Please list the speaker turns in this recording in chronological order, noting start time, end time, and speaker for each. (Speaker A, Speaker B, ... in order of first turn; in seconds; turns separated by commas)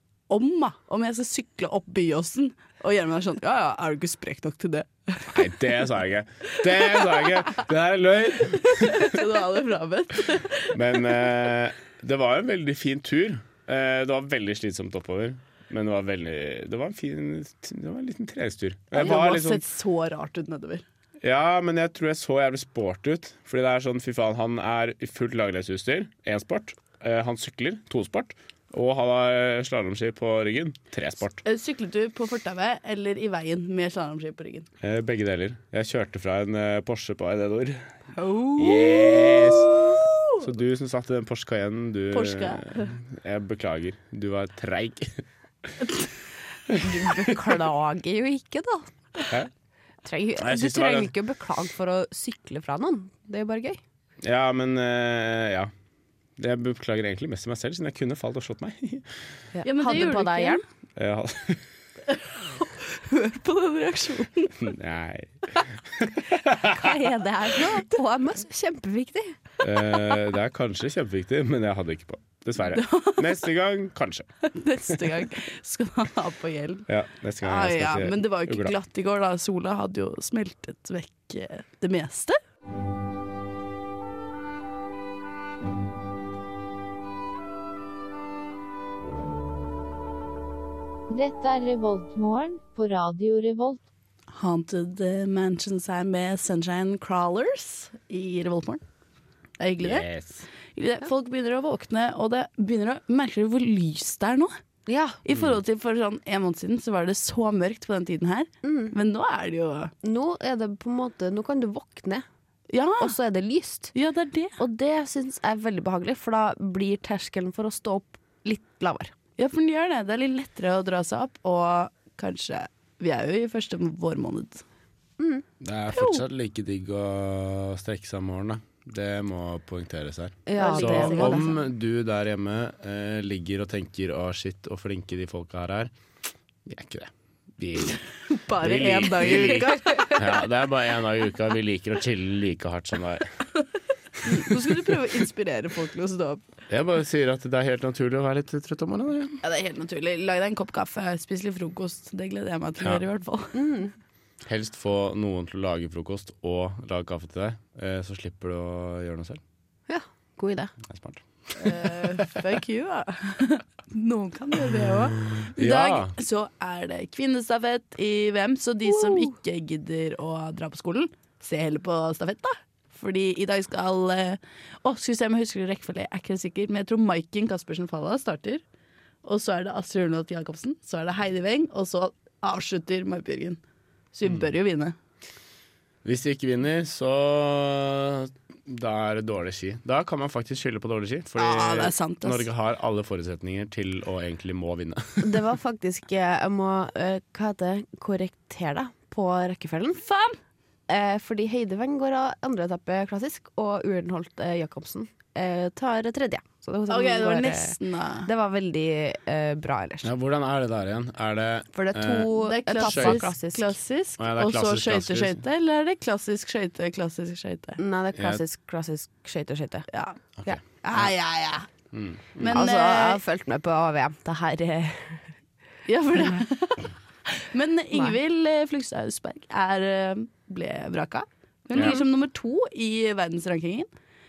Speaker A: 0.3-5.5, Speaker B: 5.3-9.2, Speaker A: 8.6-11.1, Speaker B: 10.7-19.6, Speaker A: 18.9-20.8, Speaker B: 21.2-31.4, Speaker A: 31.4-34.7, Speaker B: 34.8-37.9, Speaker A: 38.2-40.4, Speaker B: 38.6-39.9, Speaker B: 40.4-45.7, Speaker A: 42.1-42.9, Speaker C: 46.8-49.3, Speaker C: 50.0-53.8, Speaker B: 50.4-51.1, Speaker B: 54.2-55.7, Speaker B: 56.4-59.1, Speaker C: 59.5-60.6, Speaker A: 59.6-60.6, Speaker B: 61.0-61.7, Speaker A: 62.1-64.7, Speaker B: 64.6-67.0, Speaker C: 66.6-69.4, Speaker B: 69.6-74.3, Speaker A: 72.7-73.2, Speaker A: 74.4-76.9, Speaker B: 76.9-78.7, Speaker A: 77.4-82.4, Speaker D: 91.1-93.8, Speaker A: 94.3-98.8, Speaker A: 99.6-100.1, Speaker B: 99.8-100.5, Speaker A: 100.8-104.6, Speaker C: 104.9-105.2, Speaker A: 105.2-109.9, Speaker B: 105.3-105.6, Speaker C: 108.6-108.9, Speaker C: 110.0-112.2, Speaker A: 112.7-113.2, Speaker C: 113.0-113.9, Speaker A: 113.9-114.6, Speaker C: 114.6-119.1, Speaker A: 119.4-124.6, Speaker C: 125.2-125.5, Speaker B: 125.6-135.9, Speaker A: 125.9-126.2, Speaker C: 130.5-131.6, Speaker A: 130.6-131.5, Speaker B: 136.7-138.0, Speaker A: 138.2-140.3, Speaker B: 138.6-143.3, Speaker A: 144.2-146.4, Speaker B: 144.3-144.7, Speaker B: 146.7-149.4, Speaker A: 149.4-153.6, Speaker C: 153.5-153.9, Speaker B: 154.4-159.4, Speaker C: 159.9-160.7, Speaker B: 160.8-161.9, Speaker A: 161.6-178.6, Speaker B: 165.2-166.1, Speaker C: 168.9-169.3, Speaker A: 179.2-183.6, Speaker A: 184.1-184.9, Speaker B: 186.0-195.4, Speaker A: 191.4-192.5, Speaker C: 195.2-200.1, Speaker A: 200.0-200.4, Speaker C: 200.9-210.1, Speaker A: 206.9-208.3, Speaker B: 210.0-213.3, Speaker C: 211.7-213.7, Speaker A: 212.4-217.8, Speaker B: 214.2-215.4, Speaker C: 217.8-219.9, Speaker B: 218.2-218.4, Speaker A: 219.9-220.2, Speaker B: 220.4-221.1, Speaker A: 220.8-221.7, Speaker B: 221.9-222.7, Speaker A: 222.4-223.2, Speaker C: 222.5-225.3, Speaker A: 225.9-233.9